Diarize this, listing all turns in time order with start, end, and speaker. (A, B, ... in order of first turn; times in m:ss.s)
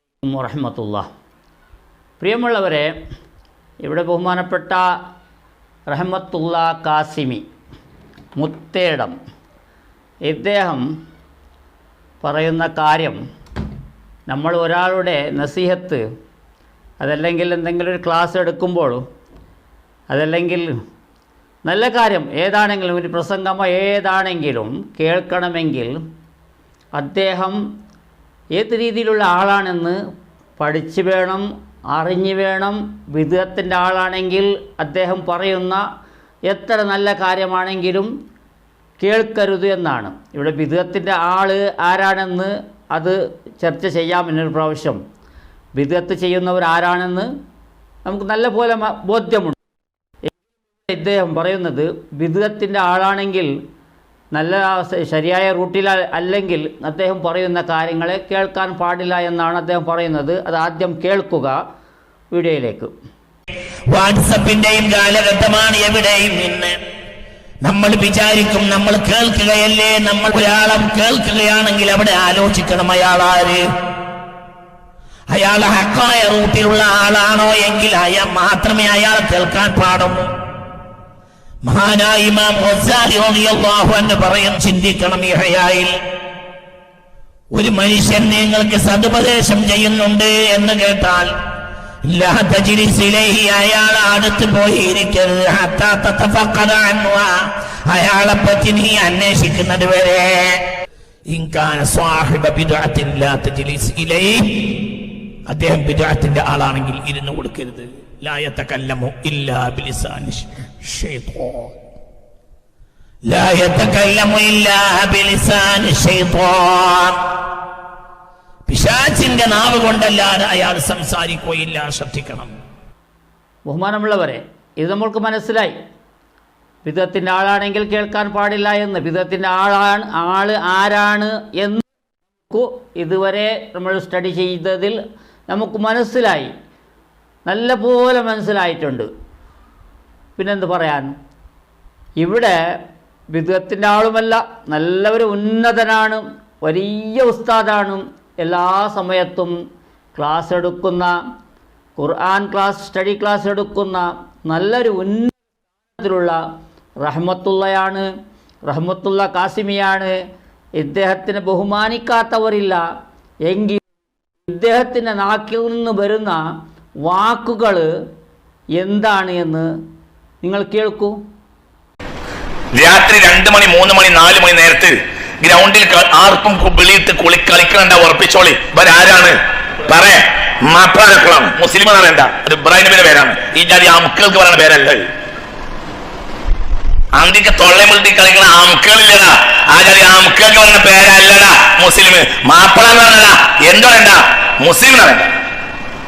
0:00.2-0:01.1 A
0:02.2-0:02.9 A
0:03.8-0:04.9 A
0:05.9-0:07.4 A
0:08.4-0:09.2 A
0:10.2-0:10.9 A
0:12.2-0:13.2 A
0:14.3-0:16.0 A
0:17.0-0:19.0 A
0:20.1-0:20.7 A
0:21.6-0:26.0 A
0:27.0-0:27.6 A
0:28.5-0:30.0 A
0:30.6-0:35.8 A
0:36.5-0:38.1 A
0:39.0-0:45.0 A
0:45.8-0:47.3 A
0:48.0-0:49.6 A
0:50.9-0:53.5 A
0:54.3-1:01.6 A
1:02.3-1:02.9 A
1:03.9-1:06.8 B
1:07.6-1:13.6 B
1:15.3-1:20.3 B
1:21.6-1:25.9 B
1:27.5-1:31.3 B
1:32.1-1:40.6 B
1:41.3-1:44.9 B
1:45.5-1:51.7 B
1:53.3-1:57.2 B
1:58.7-2:02.5 B
2:03.7-2:05.7 A
2:06.8-2:11.8 A
2:12.5-2:15.0 A
2:15.5-2:16.5 A
2:17.4-2:19.1 A
2:20.4-2:21.1 A
2:22.2-2:22.6 A
2:23.3-2:29.5 A
2:30.2-2:31.1 A
2:32.0-2:35.4 A
2:35.9-2:36.4 A
2:37.0-2:38.1 A
2:38.7-2:40.1 A
2:40.8-2:42.8 A
2:43.4-2:43.8 A
2:44.5-2:46.4 A
2:47.0-2:47.9 A
2:48.8-2:49.7 A
2:50.4-2:51.2 A
2:52.8-2:54.9 C
2:52.9-2:54.1 B
2:55.4-2:59.3 C
2:58.2-2:59.3 B
2:59.9-3:00.2 C
3:00.7-3:02.6 B
3:00.8-3:05.0 C
3:03.2-3:04.0 B
3:04.5-3:04.9 B
3:07.2-3:09.2 C
3:09.8-3:15.2 C